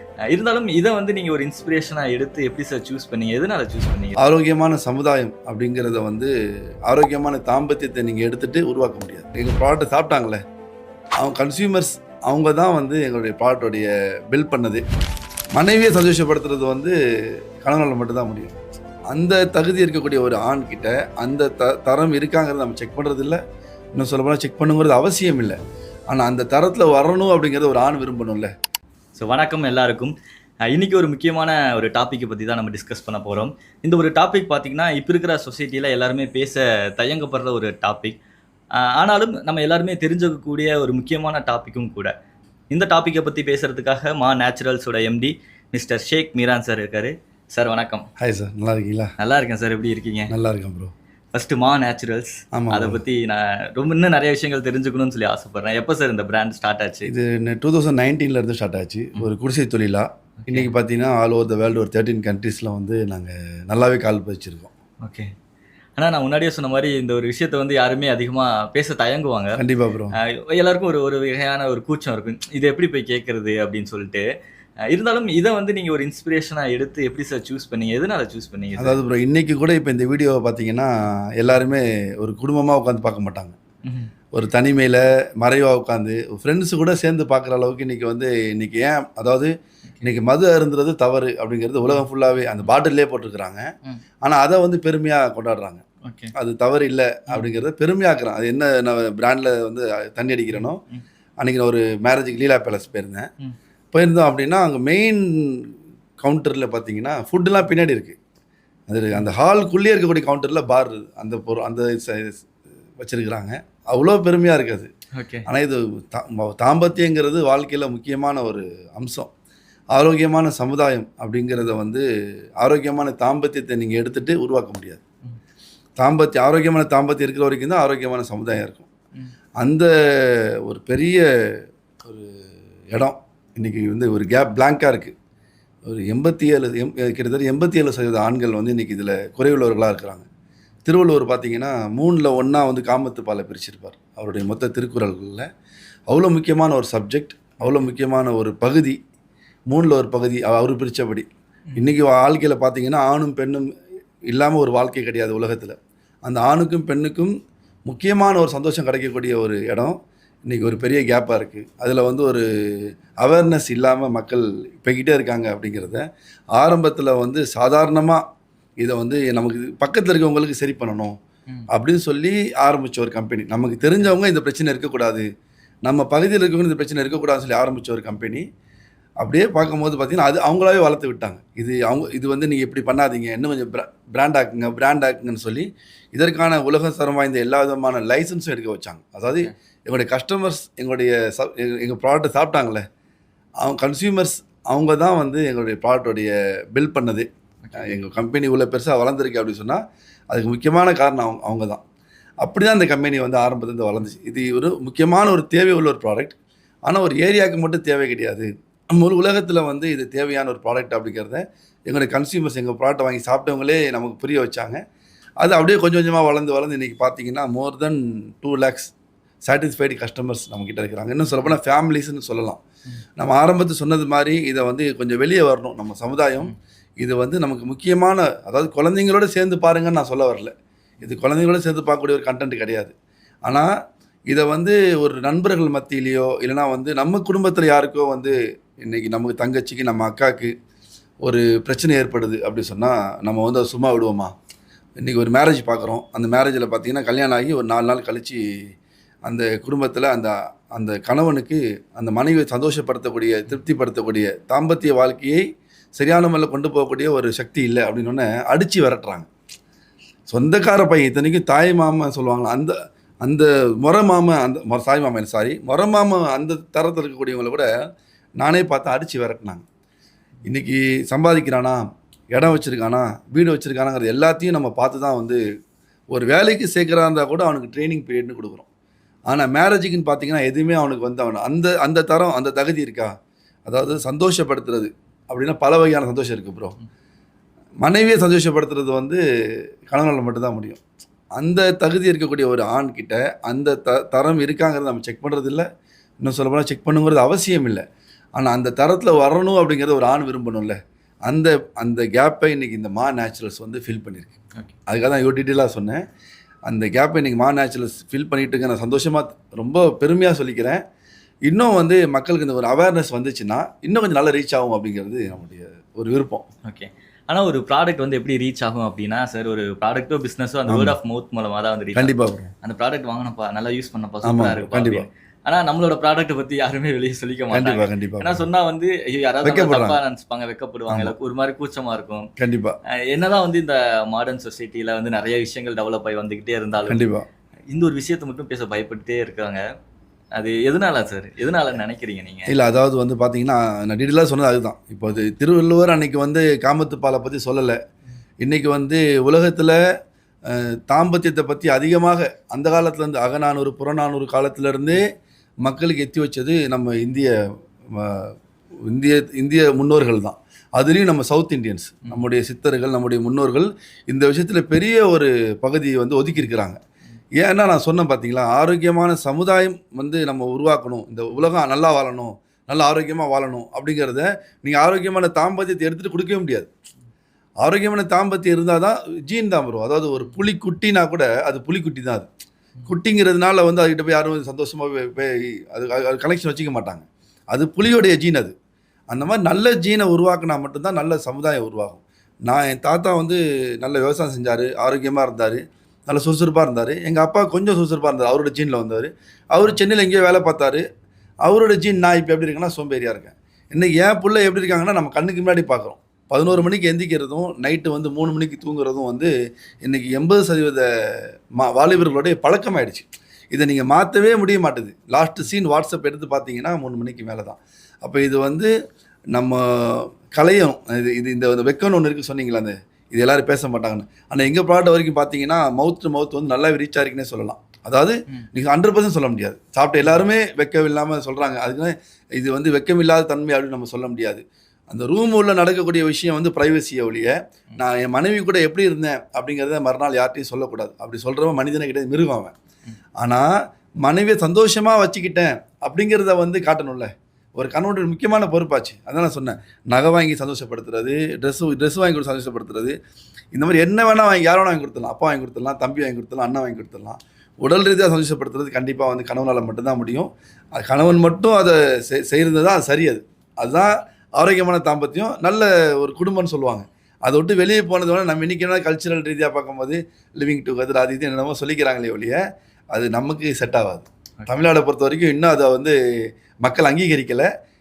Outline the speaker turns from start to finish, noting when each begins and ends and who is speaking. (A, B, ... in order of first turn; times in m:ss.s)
0:00.3-0:04.2 A
0:04.2-0:06.3 B
0:06.9-0:10.4 B
0:11.2-0:14.8 B
0:15.5-0:16.9 B
0:17.6-0:18.6 B
0:19.1-0:23.4 B
0:24.0-0:25.6 B
0:26.1-0:28.5 B
0:29.1-0:30.1 A
0:30.7-0:38.2 A
0:38.8-0:42.1 A
0:42.7-0:48.0 A
0:48.2-0:49.1 B
0:49.2-0:50.3 A
0:50.3-0:50.9 B
0:51.3-0:57.1 A
0:52.5-0:53.0 B
0:57.0-1:04.7 B
1:00.4-1:00.7 A
1:05.0-1:05.3 A
1:06.0-1:09.6 A
1:09.6-1:10.2 B
1:10.2-1:14.2 A
1:14.9-1:19.0 A
1:18.8-1:23.6 B
1:23.8-1:24.1 A
1:24.3-1:29.5 B
1:30.0-1:33.6 B
1:34.2-1:35.8 B
1:36.0-1:36.3 A
1:36.3-1:40.8 B
1:37.3-1:37.6 A
1:40.5-1:41.0 A
1:41.4-1:43.3 B
1:43.9-1:45.7 B
1:46.2-1:48.2 B
1:48.9-1:52.5 B
1:53.0-1:54.9 B
1:55.2-1:55.4 A
1:55.5-1:59.3 B
1:59.9-2:02.0 B
2:02.6-2:05.0 B
2:06.0-2:08.9 B
2:09.6-2:11.2 B
2:12.0-2:15.1 B
2:15.8-2:20.2 B
2:20.8-2:25.5 B
2:26.1-2:29.0 B
2:29.7-2:33.7 B
2:34.3-2:37.3 B
2:37.9-2:40.0 B
2:40.5-2:46.0 B
2:46.6-2:48.2 B
2:48.8-2:51.1 B
2:51.7-2:55.2 B
2:55.8-2:58.4 B
2:59.2-3:12.8 B
3:13.6-3:21.8 B
3:17.6-3:17.9 A
3:22.4-3:34.8 B
3:35.4-3:38.9 B
3:39.5-3:42.6 B
3:43.2-3:52.9 B
3:54.3-4:00.5 B
4:01.2-4:04.3 B
4:05.0-4:08.4 B
4:09.2-4:15.4 B
4:16.0-4:19.3 B
4:20.3-4:27.7 B
4:28.4-4:29.6 B
4:30.4-4:31.8 B
4:32.3-4:35.4 B
4:36.1-4:38.7 B
4:39.3-4:43.1 B
4:43.7-4:46.8 B
4:47.8-4:49.2 B
4:49.9-4:50.8 B
4:51.4-4:55.6 B
4:56.2-4:57.8 B
4:58.4-5:06.0 B
5:06.7-5:10.8 B
5:11.5-5:16.4 B
5:16.6-5:32.3 A
5:20.7-5:21.0 B
5:21.9-5:22.5 B
5:24.2-5:25.1 B
5:27.5-5:28.4 B
5:29.4-5:30.0 B
5:30.9-5:31.1 B
5:32.4-5:32.8 B
5:33.0-5:37.0 A
5:36.9-5:37.2 B
5:37.7-5:39.6 A
5:40.3-5:42.5 A
5:42.5-5:47.8 B
5:48.4-5:49.8 B
5:50.5-5:55.0 B
5:55.6-5:57.3 B
5:57.9-5:58.3 B
5:58.9-6:06.8 B
6:07.4-6:16.7 B
6:17.6-6:22.3 B
6:22.8-6:28.5 B
6:29.1-6:40.8 B
6:41.4-6:49.3 B
6:49.8-6:58.7 B
6:59.3-7:22.5 B
7:23.2-7:23.5 B
7:24.0-7:33.0 B
7:33.5-7:52.4 B
7:52.9-7:56.0 B
7:56.6-7:57.5 B